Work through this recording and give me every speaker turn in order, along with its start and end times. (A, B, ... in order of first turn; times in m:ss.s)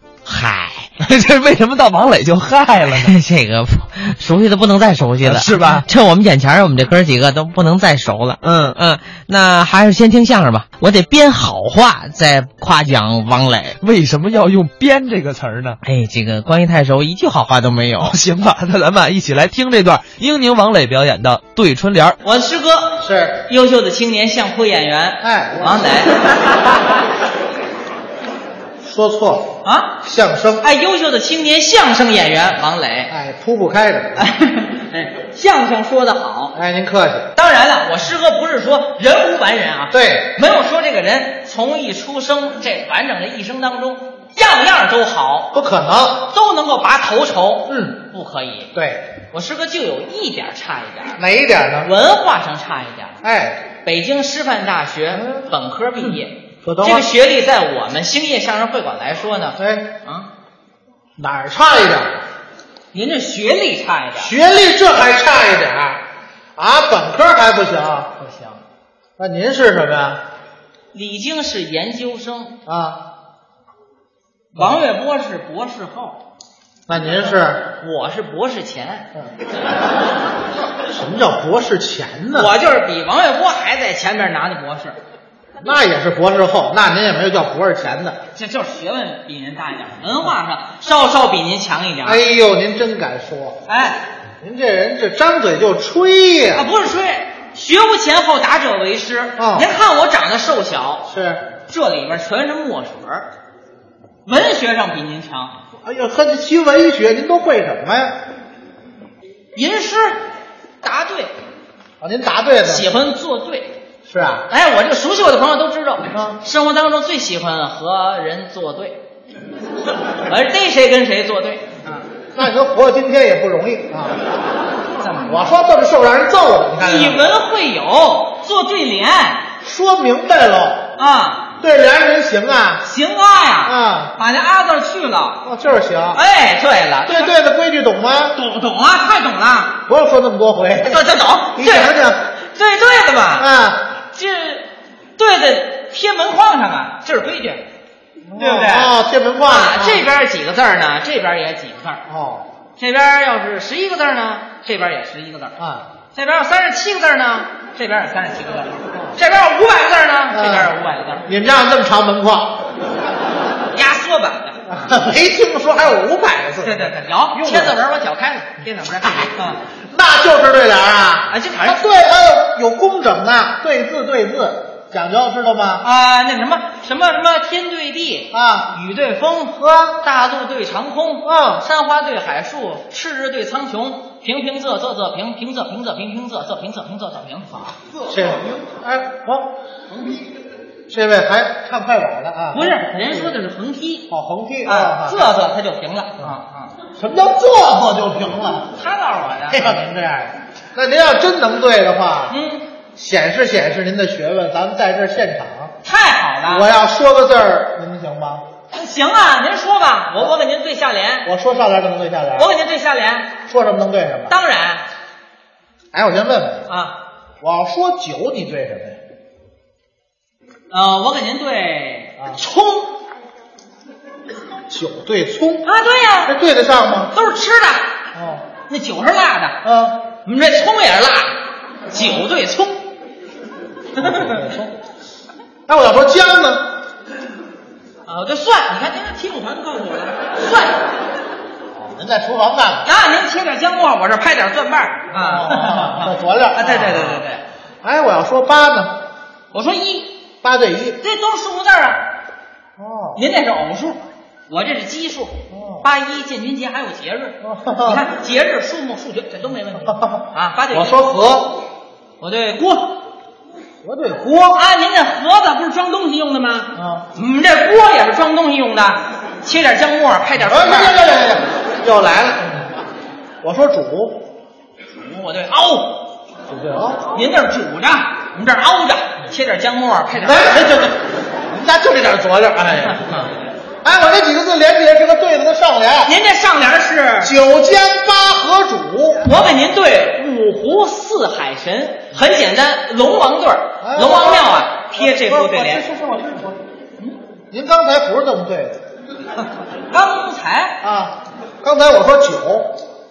0:00.2-0:01.0 A
0:01.0-0:03.2 B
0:02.9-0:13.8 A
0:05.2-0:05.8 B
0:08.4-0:08.8 B
0:13.8-0:15.8 B
0:15.8-0:18.2 A
0:18.0-0:22.2 B
0:22.2-0:26.3 C
0:23.0-0:23.4 D
0:25.2-0:26.0 D
0:28.8-0:30.6 D
0:29.6-0:30.0 C
0:30.6-0:33.1 C
0:33.1-0:34.3 D
0:34.2-0:36.5 C
0:36.5-0:37.3 D
0:37.3-0:45.5 C
0:39.9-0:40.4 D
0:45.5-0:46.3 D
0:46.3-0:48.7 C
0:47.7-0:48.0 D
0:48.7-0:49.1 D
0:49.3-0:51.2 C
0:51.2-0:51.9 D
0:51.8-0:53.2 C
0:53.2-0:53.6 D
0:53.8-1:00.3 C
0:55.1-0:57.1 D
0:59.6-0:59.9 D
1:01.2-1:02.2 D
1:02.9-1:04.3 C
1:04.2-1:06.0 D
1:06.6-1:08.2 D
1:08.2-1:08.6 C
1:09.2-1:10.2 D
1:10.9-1:12.6 C
1:12.6-1:13.0 D
1:14.5-1:16.2 C
1:14.6-1:14.8 D
1:16.9-1:17.7 D
1:17.8-1:19.1 C
1:20.9-1:22.5 D
1:22.3-1:25.0 C
1:25.6-1:28.2 D
1:28.3-1:32.2 C
1:32.0-1:33.6 D
1:33.7-1:34.0 C
1:34.4-1:36.6 D
1:36.5-1:41.1 C
1:39.4-1:39.7 D
1:41.0-1:41.4 D
1:41.7-1:43.3 C
1:44.2-1:45.5 C
1:45.8-1:48.2 D
1:49.5-1:50.2 C
1:50.8-1:51.3 C
1:52.0-1:52.9 D
1:52.6-1:53.7 C
1:54.1-1:54.5 D
1:54.5-1:59.0 C
1:56.1-1:56.4 D
2:00.2-2:02.0 C
2:02.3-2:04.2 D
2:05.0-2:05.5 C
2:05.3-2:07.4 D
2:06.8-2:09.4 C
2:09.6-2:10.9 D
2:11.0-2:11.5 C
2:11.6-2:12.9 D
2:12.8-2:15.4 C
2:13.6-2:14.1 D
2:15.4-2:16.2 D
2:16.1-2:17.3 C
2:17.0-2:18.4 D
2:18.3-2:19.8 C
2:19.9-2:22.3 D
2:20.8-2:21.9 C
2:22.5-2:23.5 C
2:23.4-2:23.9 D
2:24.1-2:27.6 C
2:28.2-2:30.0 D
2:28.3-2:28.9 C
2:29.4-2:32.0 C
2:32.1-2:32.5 D
2:32.8-2:35.6 C
2:35.6-2:35.9 D
2:36.1-2:41.3 C
2:40.3-2:42.6 D
2:43.7-2:44.8 C
2:44.7-2:47.8 D
2:46.6-2:49.6 C
2:49.0-2:49.3 D
2:49.9-2:55.8 D
2:51.3-2:51.8 C
2:55.8-3:07.8 C
2:58.3-2:58.7 D
3:01.2-3:01.6 D
3:08.0-3:09.5 D
3:10.9-3:13.4 D
3:12.5-3:14.1 C
3:14.1-3:15.3 D
3:14.6-3:16.7 C
3:16.9-3:18.7 D
3:18.7-3:19.8 C
3:19.5-3:22.4 D
3:22.3-3:22.6 C
3:22.9-3:25.7 D
3:25.8-3:26.7 C
3:26.5-3:28.4 D
3:28.7-3:31.3 C
3:31.2-3:32.6 D
3:32.4-3:33.3 C
3:33.4-3:34.3 D
3:34.3-3:34.8 C
3:35.9-3:36.7 D
3:36.7-3:37.0 C
3:37.4-3:39.0 D
3:40.7-3:42.9 C
3:44.7-3:45.7 D
3:45.6-3:46.3 C
3:46.2-3:47.1 D
3:47.1-3:47.9 C
3:48.1-3:48.4 D
3:48.7-3:49.6 C
3:49.6-3:50.0 D
3:50.2-3:52.8 C
3:51.9-3:52.2 D
3:54.0-3:54.7 D
3:54.0-3:54.5 C
3:55.7-3:56.7 D
3:58.0-4:00.8 C
4:01.8-4:02.9 D
4:02.8-4:07.4 C
4:05.1-4:07.2 D
4:07.8-4:09.0 D
4:09.5-4:10.1 C
4:10.4-4:11.0 D
4:11.0-4:12.0 C
4:12.8-4:13.2 D
4:13.2-4:20.9 C
4:15.5-4:15.8 D
4:17.4-4:18.0 D
4:19.8-4:21.6 D
4:22.2-4:23.0 C
4:23.8-4:24.6 D
4:24.5-4:31.0 C
4:26.7-4:27.1 D
4:30.4-4:32.8 D
4:33.4-4:34.2 D
4:35.0-4:36.0 C
4:36.5-4:37.1 D
4:37.1-4:40.6 C
4:40.1-4:43.3 D
4:43.8-4:46.1 D
4:46.0-4:47.3 C
4:47.2-4:49.6 D
4:49.2-4:55.9 C
4:53.8-4:56.6 D
4:57.5-4:58.8 D
4:59.9-5:00.8 C
5:00.8-5:02.7 D